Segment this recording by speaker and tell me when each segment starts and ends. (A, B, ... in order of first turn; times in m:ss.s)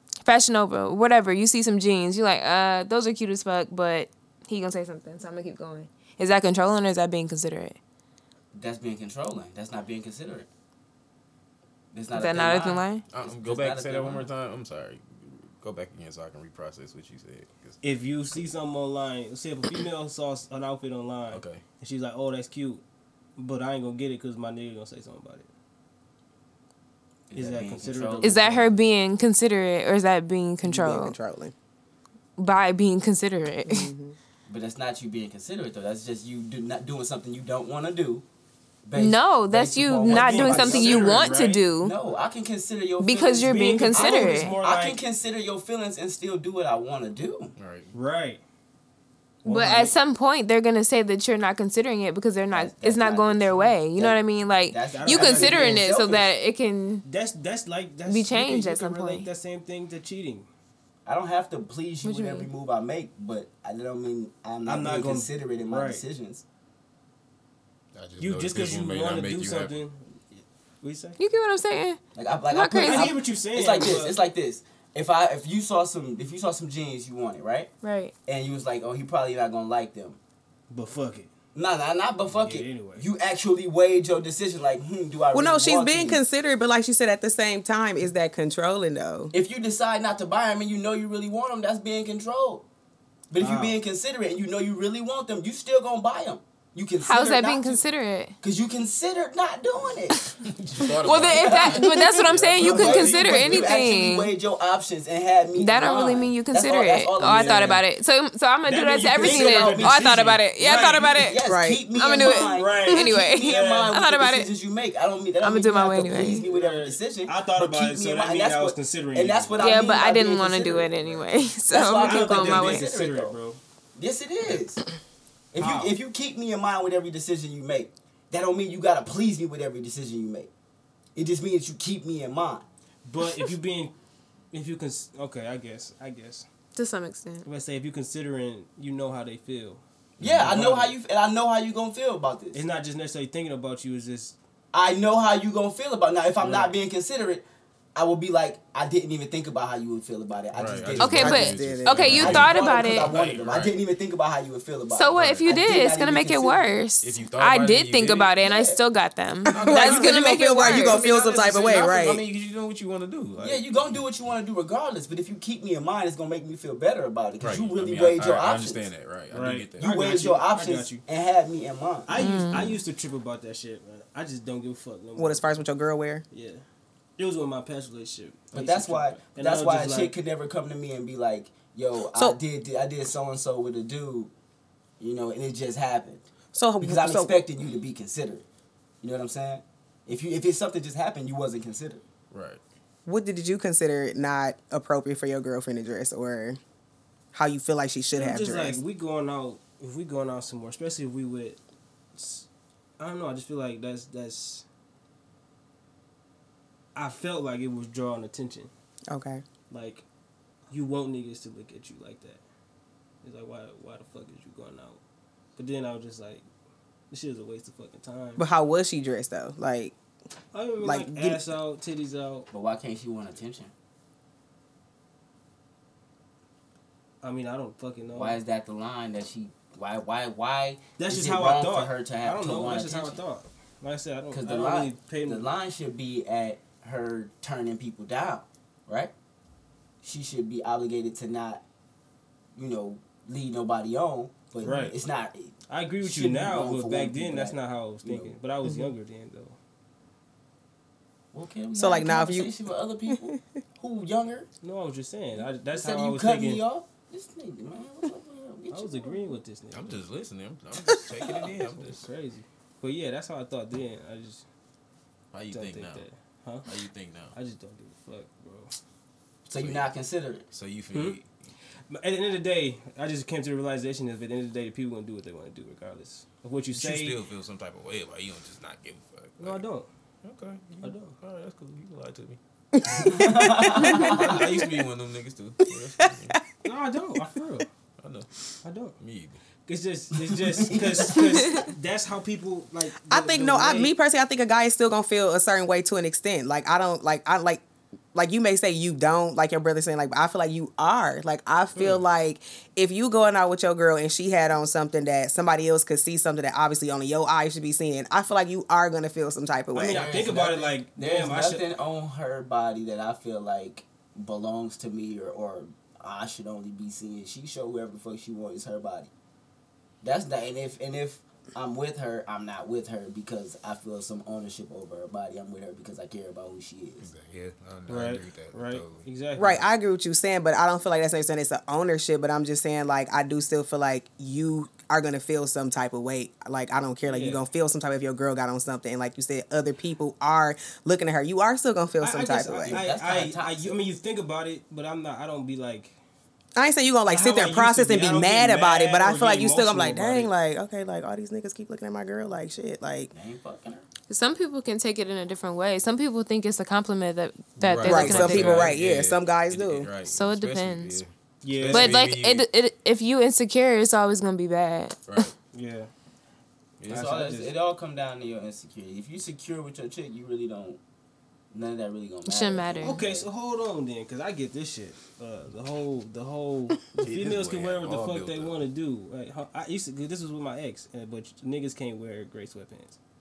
0:00.2-0:07.8 A
0:08.5-0:10.5 B
0:11.9-0:14.3 B
0:12.1-0:13.0 A
0:13.1-0:17.8 C
0:17.8-0:22.8 D
0:21.3-0:21.6 C
0:23.4-0:25.5 D
0:27.3-0:28.4 B
0:27.3-0:28.7 D
0:28.2-0:31.1 A
0:30.6-0:31.5 E
0:32.4-0:33.9 A
0:33.7-0:34.2 E
0:34.5-0:38.2 B
0:38.8-0:47.5 B
0:38.9-0:41.9 A
0:40.0-0:41.7 D
0:43.0-0:44.6 A
0:43.3-0:45.0 D
0:47.6-0:47.9 C
0:47.9-0:48.4 D
0:49.4-0:50.0 D
0:49.4-0:57.0 A
0:52.5-0:56.3 B
0:54.8-0:55.9 D
0:57.0-1:00.5 D
0:58.0-0:59.3 A
1:01.0-1:06.4 B
1:02.0-1:02.5 A
1:04.6-1:06.0 D
1:07.9-1:09.8 C
1:08.2-1:11.2 D
1:11.2-1:12.0 A
1:12.1-1:17.7 B
1:12.5-1:13.1 A
1:12.8-1:14.2 D
1:17.8-1:18.1 A
1:18.2-1:20.2 B
1:20.7-1:21.3 D
1:21.5-1:26.2 B
1:22.3-1:23.1 D
1:25.3-1:29.3 E
1:29.3-1:32.6 B
1:33.3-1:37.8 B
1:33.4-1:33.8 D
1:37.0-1:38.3 A
1:38.4-1:40.3 B
1:40.4-1:43.8 C
1:41.0-1:44.3 A
1:41.1-1:47.8 B
1:45.6-1:54.5 A
1:47.3-1:47.8 D
1:48.6-1:51.2 D
1:49.1-2:03.4 B
1:51.4-1:51.8 E
1:52.1-1:53.8 D
1:55.4-1:56.5 A
1:56.2-1:59.7 D
1:59.6-2:02.9 A
2:01.9-2:03.6 D
2:04.0-2:04.8 B
2:05.5-2:10.5 B
2:05.6-2:06.0 D
2:11.1-2:12.6 B
2:13.0-2:13.9 D
2:14.5-2:16.4 D
2:16.7-2:17.5 A
2:17.4-2:19.8 D
2:20.2-2:20.5 C
2:20.2-2:22.6 B
2:20.3-2:20.9 D
2:22.5-2:24.4 D
2:24.7-2:27.4 B
2:26.4-2:26.7 D
2:27.9-2:31.4 B
2:30.5-2:33.8 C
2:31.0-2:33.1 A
2:31.0-2:32.4 E
2:32.1-2:36.6 B
2:34.9-2:41.0 A
2:35.2-2:35.5 C
2:37.0-2:38.3 C
2:38.4-2:38.8 B
2:39.5-2:44.1 C
2:39.5-2:42.2 E
2:43.4-2:48.8 B
2:47.4-2:49.9 C
2:49.3-2:51.0 D
2:49.8-2:52.1 B
2:52.0-2:55.6 D
2:52.2-2:52.8 A
2:55.2-2:56.2 E
2:56.3-2:56.6 D
2:57.2-3:00.1 D
2:58.5-3:04.3 B
3:05.0-3:06.3 B
3:06.5-3:07.4 E
3:06.8-3:08.4 B
3:09.0-3:12.0 B
3:12.3-3:12.6 C
3:13.0-3:16.6 E
3:17.3-3:18.8 E
3:18.1-3:21.6 D
3:22.1-3:22.5 D
3:23.0-3:24.6 D
3:26.9-3:28.7 D
3:29.1-3:29.4 E
3:29.7-3:30.0 D
3:30.7-3:32.4 D
3:33.2-3:35.0 D
3:35.6-3:36.4 D
3:37.1-3:38.4 D
3:38.4-3:39.9 E
3:40.5-3:42.5 D
3:40.8-3:41.4 E
3:42.5-3:43.7 B
3:47.2-3:48.4 D
3:48.1-3:53.2 B
3:51.0-3:55.5 D
3:54.3-3:59.1 B
4:00.0-4:01.6 B
4:02.5-4:08.3 B
4:04.6-4:05.0 D
4:05.7-4:09.6 D
4:08.6-4:08.9 E
4:11.3-4:14.5 B
4:11.7-4:12.5 E
4:13.1-4:13.4 E
4:14.6-4:16.6 D
4:15.4-4:19.2 B
4:18.7-4:20.0 D
4:19.7-4:22.0 C
4:21.4-4:24.4 D
4:25.3-4:26.0 C
4:25.5-4:26.8 D
4:26.6-4:27.4 C
4:27.3-4:28.7 D
4:29.5-4:30.4 B
4:29.5-4:29.9 C
4:30.5-4:31.5 C
4:30.9-4:31.2 D
4:31.9-4:37.2 D
4:36.7-4:39.7 C
4:39.4-4:39.9 D
4:40.2-4:42.4 C
4:40.8-4:41.2 D
4:42.7-4:44.2 E
4:43.0-4:44.4 B
4:43.8-4:46.4 C
4:46.0-4:46.3 E
4:46.6-4:47.7 D
4:48.0-4:48.3 C
4:48.6-4:49.0 D
4:49.0-4:49.4 C
4:49.6-4:54.0 D
4:50.3-4:51.2 B
4:53.1-4:57.6 E
4:58.1-5:10.2 E
5:09.7-5:11.7 D
5:09.9-5:19.1 B
5:20.0-5:27.1 B
5:27.0-5:29.1 C
5:27.9-5:29.6 D
5:29.4-5:42.8 E
5:37.0-5:37.4 D
5:42.0-5:45.9 D
5:42.6-5:43.8 B
5:46.6-5:53.1 E
5:47.0-5:50.3 D
5:53.1-5:53.9 B
5:54.1-5:58.7 A
5:57.6-6:02.5 C
5:57.8-5:59.9 E
6:00.1-6:01.0 A
6:01.4-6:02.1 D
6:01.7-6:05.3 A
6:05.1-6:05.3 C
6:05.5-6:05.9 D
6:06.8-6:07.2 C
6:06.8-6:07.6 D
6:06.9-6:10.8 B
6:11.5-6:13.2 B
6:12.2-6:13.0 A
6:12.8-6:23.0 D
6:17.0-6:18.6 C